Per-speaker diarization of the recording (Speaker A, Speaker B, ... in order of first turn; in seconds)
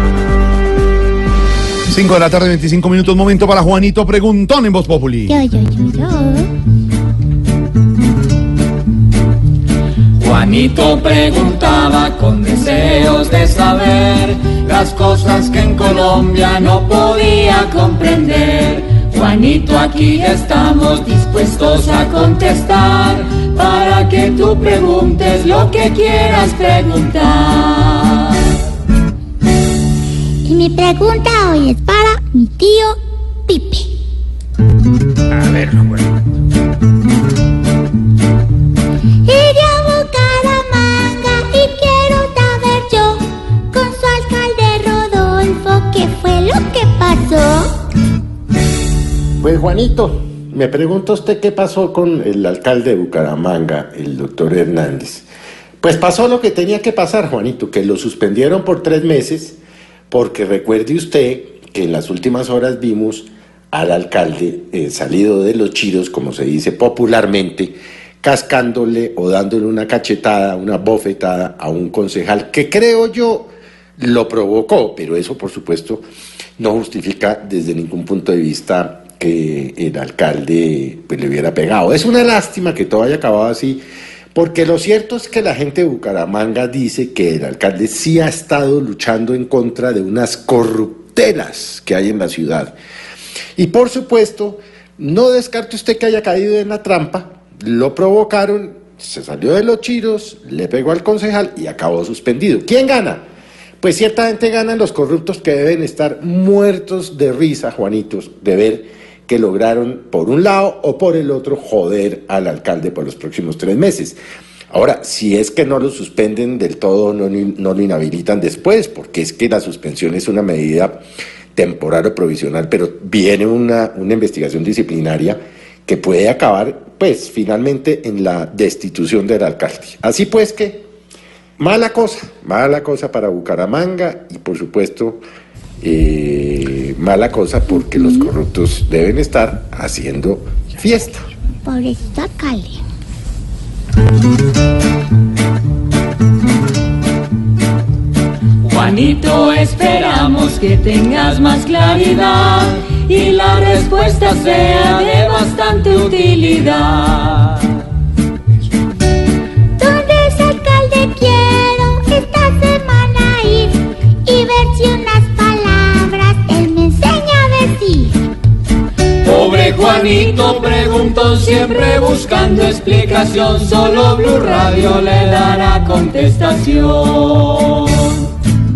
Speaker A: 1.9-5.4
Speaker B: 5.3-6.5, 30.4-33.9, 39.2-47.7, 137.9-138.3, 141.7-142.8, 159.8-168.2
Speaker C: 10.2-28.5, 148.6-157.8, 169.2-178.2
Speaker D: 49.4-55.3, 55.8-59.6, 60.1-76.0, 76.6-83.8, 84.3-92.8, 93.6-103.2, 103.8-114.2, 114.7-121.0, 121.5-130.8, 131.6-135.2, 135.8-141.3